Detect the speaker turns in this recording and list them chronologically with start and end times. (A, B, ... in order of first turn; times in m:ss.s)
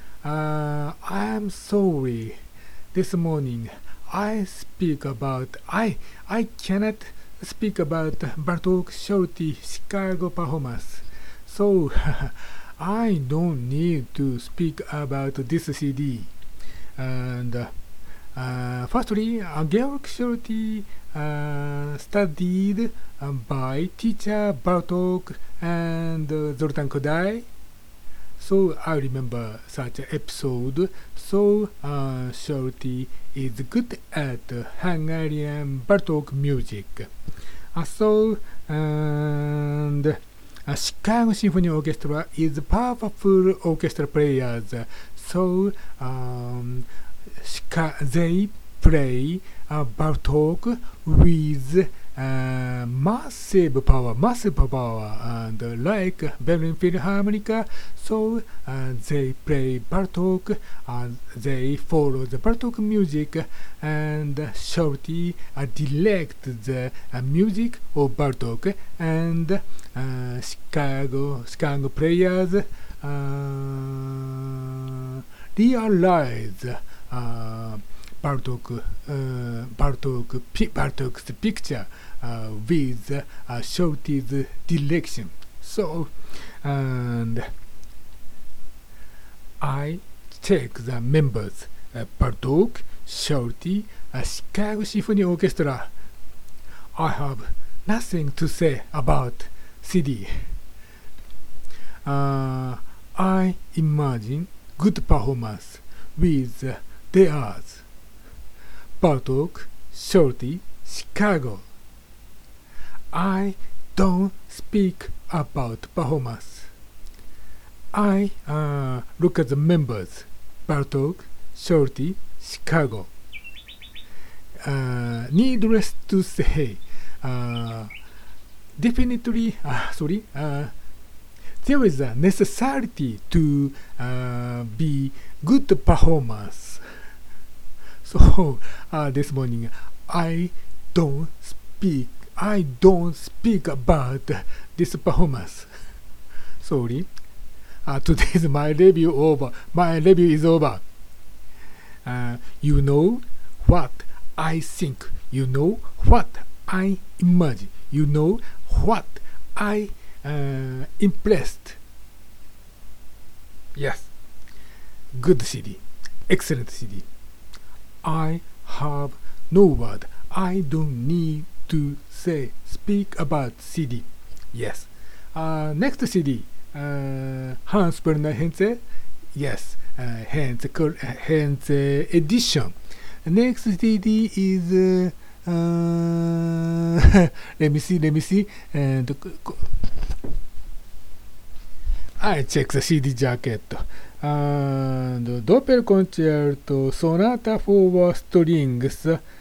0:00.2-0:02.4 A
0:02.9-0:16.3 A
0:17.0-0:17.7 A
0:18.4-0:27.5 A
0:28.4-0:37.1 A
0:37.7-0:46.9 A
0:47.4-1:27.5 A
1:29.6-1:35.9 A
1:37.0-1:40.5 A
1:42.0-1:47.8 A
1:49.0-1:51.6 A
1:53.1-1:56.7 A
1:57.9-2:03.1 A
2:04.6-2:07.9 A
2:08.8-2:10.7 A
2:11.6-2:16.8 A
2:18.0-2:25.7 A
2:26.6-2:27.1 A
2:27.8-2:30.8 A
2:32.0-2:41.8 A
2:43.8-2:44.1 A
2:45.1-2:47.1 A
2:48.0-2:58.8 A
2:59.3-3:09.7 A
3:12.2-3:19.2 A